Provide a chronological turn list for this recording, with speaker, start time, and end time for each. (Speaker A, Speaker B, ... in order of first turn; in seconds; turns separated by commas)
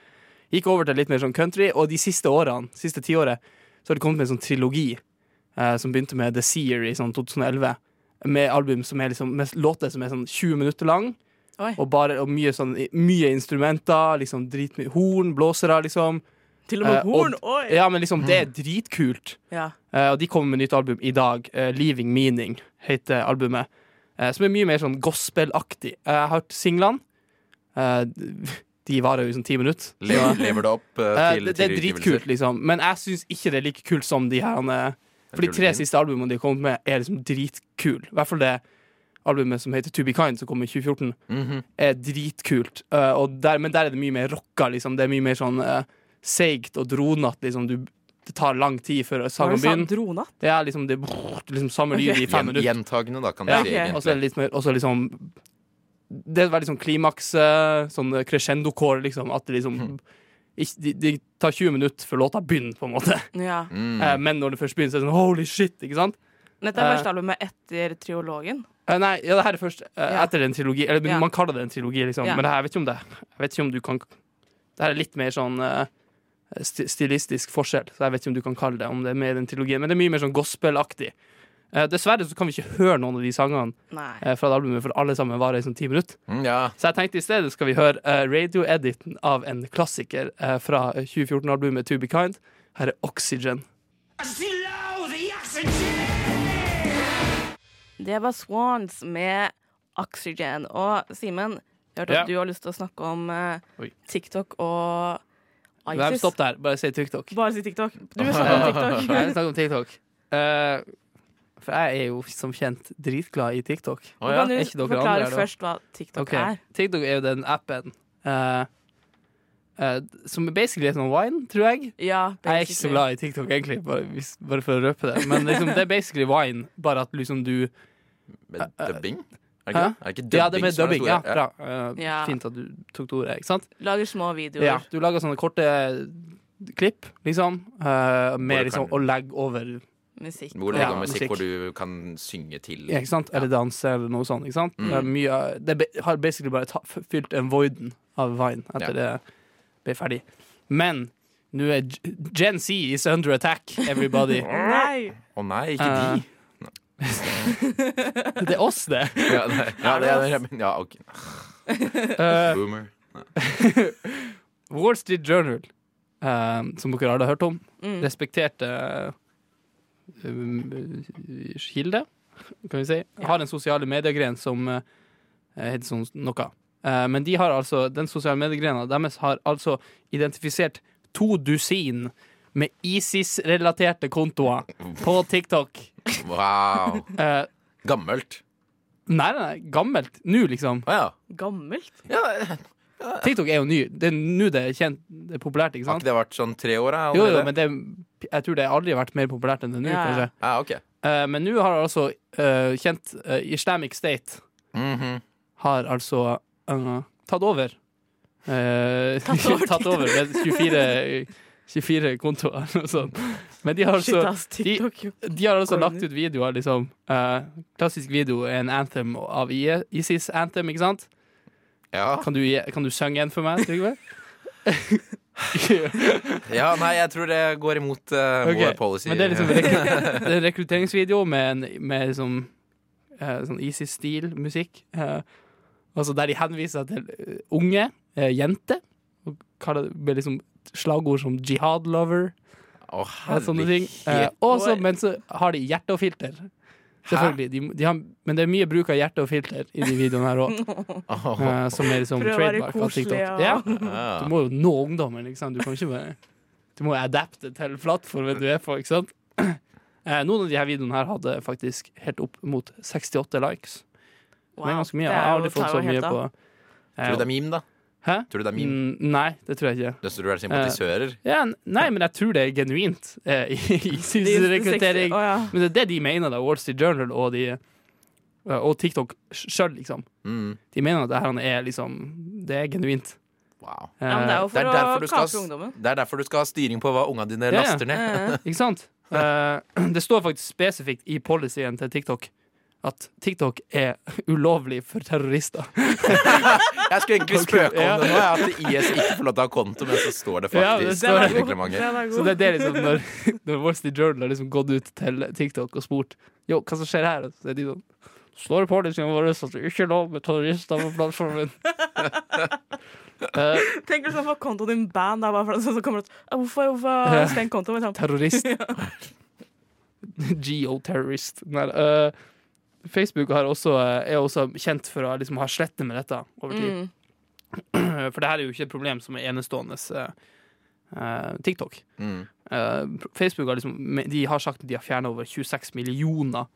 Speaker A: 0.5-5.0, Speaker A: 5.5-11.2, Speaker A: 11.8-16.2, Speaker B: 16.7-17.8, Speaker A: 16.8-19.4, Speaker A: 19.9-27.0, Speaker A: 27.7-30.4, Speaker C: 30.0-32.2, Speaker A: 31.1-38.6, Speaker C: 35.3-35.8, Speaker A: 39.2-41.2, Speaker C: 41.3-41.6, Speaker A: 41.8-52.7, Speaker B: 49.4-50.3, Speaker C: 52.2-54.2, Speaker A: 53.4-55.3, Speaker B: 53.5-53.9, Speaker A: 56.1-60.0, Speaker A: 60.5-63.3, Speaker B: 63.3-63.7, Speaker C: 63.7-64.2, Speaker A: 63.9-66.2, Speaker B: 66.6-68.7, Speaker A: 66.7-67.0, Speaker A: 68.9-74.0, Speaker A: 74.8-75.9, Speaker A: 76.5-81.1, Speaker A: 81.7-86.2, Speaker B: 83.9-84.2, Speaker C: 86.3-86.7, Speaker A: 86.8-93.6, Speaker A: 94.2-95.5, Speaker B: 98.0-105.2, Speaker B: 105.8-106.3, Speaker A: 105.9-107.3, Speaker B: 107.3-109.3, Speaker C: 108.2-109.1, Speaker A: 108.3-110.8, Speaker A: 111.6-115.5, Speaker C: 114.2-114.5, Speaker B: 114.2-116.6, Speaker A: 116.2-118.7, Speaker A: 119.8-127.7, Speaker B: 122.0-123.0, Speaker C: 128.5-131.4, Speaker A: 128.6-129.0, Speaker A: 129.7-133.7, Speaker B: 132.0-132.4, Speaker B: 133.8-134.8, Speaker A: 134.6-139.8, Speaker C: 138.4-139.0, Speaker B: 140.2-141.1, Speaker C: 140.5-143.5, Speaker A: 140.7-141.4, Speaker A: 142.9-149.2, Speaker C: 144.8-145.1, Speaker A: 149.8-154.5, Speaker C: 154.4-157.5, Speaker B: 154.5-155.2, Speaker A: 155.8-156.2, Speaker A: 157.0-157.5, Speaker B: 158.0-158.3, Speaker A: 158.4-159.6, Speaker C: 159.2-161.7, Speaker B: 159.8-160.3, Speaker A: 162.1-162.6, Speaker C: 162.3-163.3, Speaker A: 163.3-165.7, Speaker A: 166.2-169.1, Speaker B: 167.8-168.1, Speaker A: 170.2-172.1, Speaker A: 172.6-174.8, Speaker A: 175.6-186.0, Speaker C: 186.2-187.1, Speaker A: 187.1-187.5, Speaker C: 187.8-188.4, Speaker A: 189.1-190.9, Speaker C: 190.8-191.1, Speaker B: 191.3-192.0, Speaker C: 192.1-193.3, Speaker A: 193.2-196.0, Speaker C: 195.9-197.5, Speaker A: 197.1-200.3, Speaker B: 199.8-200.3, Speaker C: 200.4-200.8, Speaker A: 201.0-204.4, Speaker C: 204.7-205.2, Speaker A: 205.6-207.8, Speaker A: 208.4-221.1, Speaker B: 209.2-210.9, Speaker B: 214.0-216.0, Speaker C: 221.9-222.3, Speaker A: 222.2-224.0, Speaker A: 224.6-226.5, Speaker C: 226.5-230.3, Speaker A: 228.4-232.5, Speaker A: 233.2-235.2, Speaker A: 235.9-242.3, Speaker C: 242.9-244.3, Speaker A: 243.2-246.5, Speaker B: 244.5-244.8, Speaker C: 247.1-247.4, Speaker A: 247.1-250.6, Speaker B: 250.5-251.0, Speaker C: 251.1-251.8, Speaker A: 251.4-256.2, Speaker B: 252.1-254.0, Speaker C: 253.7-254.3, Speaker A: 256.8-263.8, Speaker B: 264.6-266.2, Speaker A: 264.6-266.3, Speaker A: 267.0-267.3, Speaker C: 267.0-267.6, Speaker A: 268.0-277.6, Speaker C: 268.3-268.8, Speaker C: 270.0-271.2, Speaker B: 274.2-275.5, Speaker A: 278.4-280.1, Speaker C: 280.2-280.6, Speaker A: 280.7-283.2, Speaker C: 283.6-283.9, Speaker A: 284.0-284.5, Speaker B: 284.1-285.8, Speaker C: 284.5-288.4, Speaker A: 287.5-292.3, Speaker B: 287.9-288.4, Speaker A: 292.8-296.6, Speaker C: 296.1-301.9, Speaker A: 297.3-299.1, Speaker A: 300.5-307.8, Speaker B: 300.8-303.0, Speaker A: 308.3-311.6, Speaker A: 313.3-313.7, Speaker B: 313.6-318.9, Speaker A: 317.0-317.4, Speaker A: 317.9-318.5, Speaker A: 320.0-322.1, Speaker A: 322.8-326.8, Speaker B: 326.5-326.9, Speaker A: 327.6-330.1, Speaker A: 330.9-331.8, Speaker C: 332.0-332.3, Speaker A: 332.5-336.5